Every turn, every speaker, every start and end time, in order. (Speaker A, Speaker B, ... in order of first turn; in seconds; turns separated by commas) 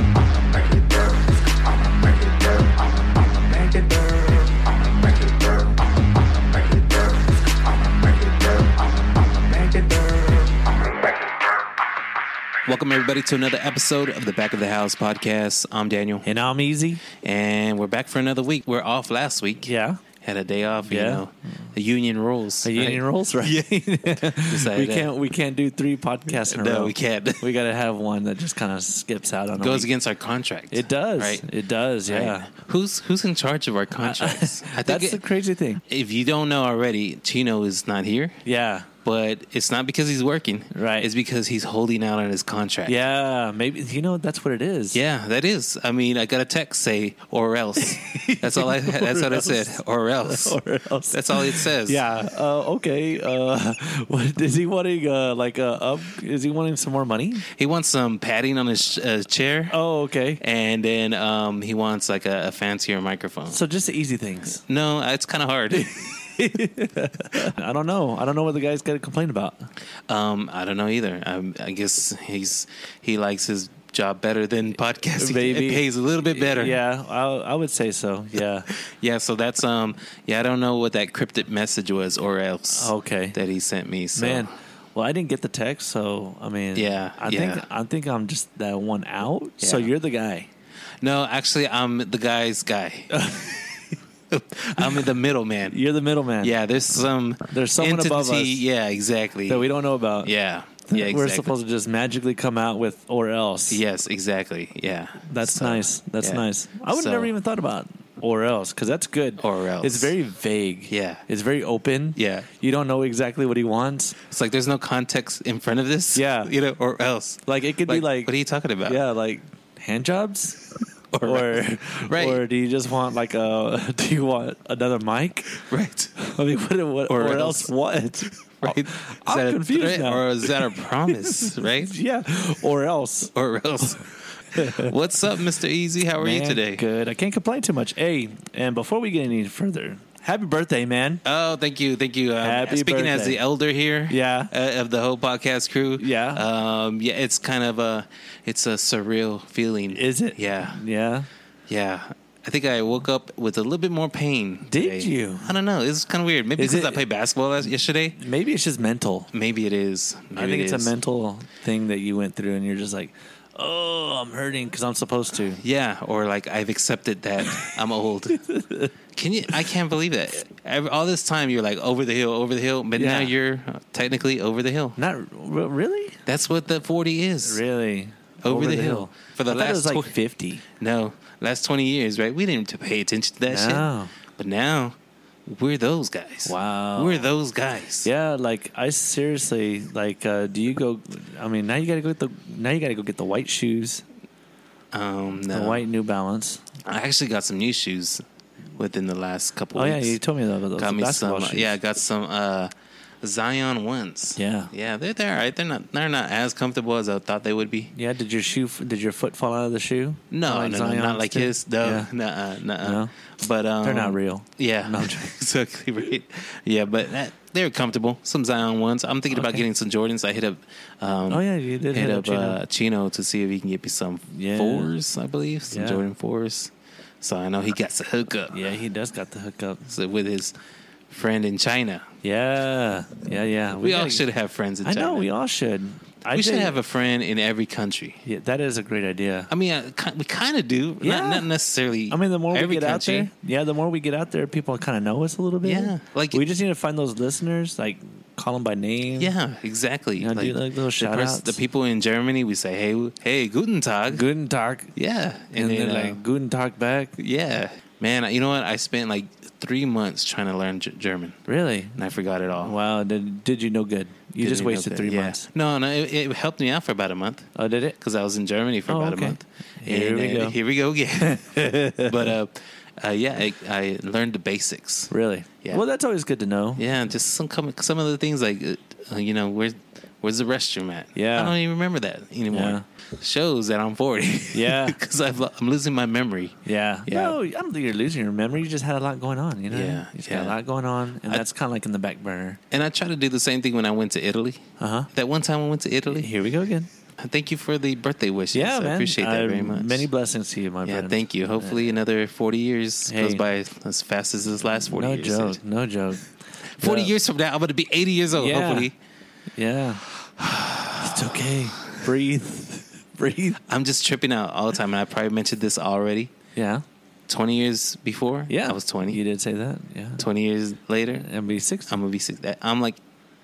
Speaker A: 0.5-1.1, Speaker A: 1.9-5.6, Speaker A: 6.5-7.0, Speaker A: 8.0-10.6, Speaker A: 12.7-16.3, Speaker B: 16.2-17.0, Speaker A: 17.1-23.7, Speaker B: 19.6-20.0, Speaker B: 20.9-21.2, Speaker B: 22.6-29.9, Speaker A: 24.3-25.1, Speaker A: 26.3-27.4, Speaker A: 29.6-31.4, Speaker B: 30.7-32.5, Speaker A: 32.1-35.2, Speaker B: 33.9-35.8, Speaker A: 35.9-38.4, Speaker B: 38.4-38.9, Speaker A: 39.0-43.0, Speaker B: 40.7-41.1, Speaker B: 42.9-45.0, Speaker A: 44.9-50.6, Speaker B: 47.8-57.5, Speaker A: 51.1-52.0, Speaker A: 57.4-59.8, Speaker B: 59.7-60.4, Speaker A: 60.4-63.6, Speaker B: 63.5-64.6, Speaker A: 64.6-66.1, Speaker B: 65.8-69.7, Speaker A: 70.1-76.8, Speaker B: 75.2-78.7, Speaker A: 78.7-84.5, Speaker B: 82.7-83.4, Speaker B: 84.1-90.5, Speaker A: 86.7-87.6, Speaker A: 89.6-89.9, Speaker A: 91.0-93.3, Speaker B: 93.1-93.8, Speaker A: 94.3-95.8, Speaker B: 95.7-96.6, Speaker A: 96.4-99.7, Speaker B: 97.5-98.6, Speaker B: 99.5-100.3, Speaker A: 100.2-101.5, Speaker B: 100.9-103.8, Speaker A: 103.7-107.3, Speaker B: 105.3-114.2, Speaker A: 109.4-110.1, Speaker A: 110.9-111.2, Speaker A: 112.2-112.5, Speaker A: 114.2-119.0, Speaker B: 116.1-116.5, Speaker B: 117.5-118.3, Speaker B: 118.8-120.6, Speaker A: 121.1-122.4, Speaker B: 121.2-125.6, Speaker A: 125.6-126.1, Speaker B: 126.2-133.3, Speaker A: 127.1-127.7, Speaker A: 128.5-131.9, Speaker A: 133.3-136.8, Speaker B: 134.5-134.9, Speaker B: 136.2-141.2, Speaker A: 141.2-150.8, Speaker B: 142.4-143.4, Speaker B: 144.1-144.5, Speaker B: 146.0-146.4, Speaker B: 149.9-151.3, Speaker A: 151.7-158.2, Speaker B: 154.7-155.5, Speaker B: 156.6-157.0, Speaker B: 158.2-159.3, Speaker A: 159.3-160.9, Speaker B: 160.3-165.6, Speaker A: 165.6-168.4, Speaker B: 168.3-168.9, Speaker A: 169.1-175.0, Speaker B: 172.9-173.3, Speaker B: 175.0-176.2, Speaker A: 176.2-177.6, Speaker B: 177.4-180.6, Speaker A: 178.4-180.1, Speaker A: 180.7-188.1, Speaker B: 183.5-184.1, Speaker B: 186.4-187.3, Speaker B: 188.0-194.0, Speaker A: 194.9-195.8, Speaker B: 195.5-196.7, Speaker A: 196.8-198.2, Speaker A: 198.7-200.2, Speaker B: 199.7-201.7, Speaker A: 200.8-202.7, Speaker A: 203.2-207.9, Speaker B: 204.3-204.7, Speaker B: 207.9-212.1, Speaker A: 210.3-228.7, Speaker B: 212.8-213.1, Speaker B: 213.8-215.3, Speaker B: 219.3-219.6, Speaker B: 221.3-222.6, Speaker B: 224.3-224.9, Speaker B: 225.7-226.0, Speaker B: 228.5-229.9, Speaker A: 229.8-230.5, Speaker A: 231.1-232.1, Speaker B: 232.2-234.2, Speaker A: 233.7-235.3, Speaker B: 234.8-236.8, Speaker A: 236.3-238.2, Speaker B: 238.2-239.5, Speaker A: 239.5-243.3, Speaker B: 241.0-241.5, Speaker B: 242.1-249.3, Speaker A: 245.6-246.4, Speaker A: 249.1-254.3, Speaker B: 250.2-251.6, Speaker B: 254.1-254.9, Speaker A: 254.9-256.2, Speaker B: 255.5-257.1, Speaker A: 257.2-261.4, Speaker B: 261.5-262.0, Speaker A: 261.9-262.7, Speaker B: 262.6-265.5, Speaker A: 264.4-267.5, Speaker B: 267.5-267.9, Speaker A: 268.0-275.1, Speaker B: 268.9-270.6, Speaker B: 271.2-272.3, Speaker B: 275.1-276.8, Speaker A: 276.8-287.4, Speaker B: 281.1-281.5, Speaker B: 282.5-282.8, Speaker B: 284.5-285.0, Speaker B: 286.6-292.6, Speaker A: 289.7-290.6, Speaker A: 292.7-296.3, Speaker B: 294.8-295.1, Speaker B: 296.1-296.9, Speaker A: 297.2-300.1, Speaker B: 298.5-302.0, Speaker A: 300.8-305.6, Speaker B: 303.1-303.4, Speaker B: 304.9-307.1, Speaker A: 306.7-308.9, Speaker B: 308.3-308.9, Speaker B: 309.6-310.1, Speaker A: 310.4-312.1, Speaker B: 310.9-313.6, Speaker A: 313.6-316.3, Speaker B: 316.6-316.8, Speaker A: 317.3-319.2, Speaker B: 318.5-320.2, Speaker A: 320.2-321.3, Speaker B: 321.2-321.9, Speaker A: 321.9-323.0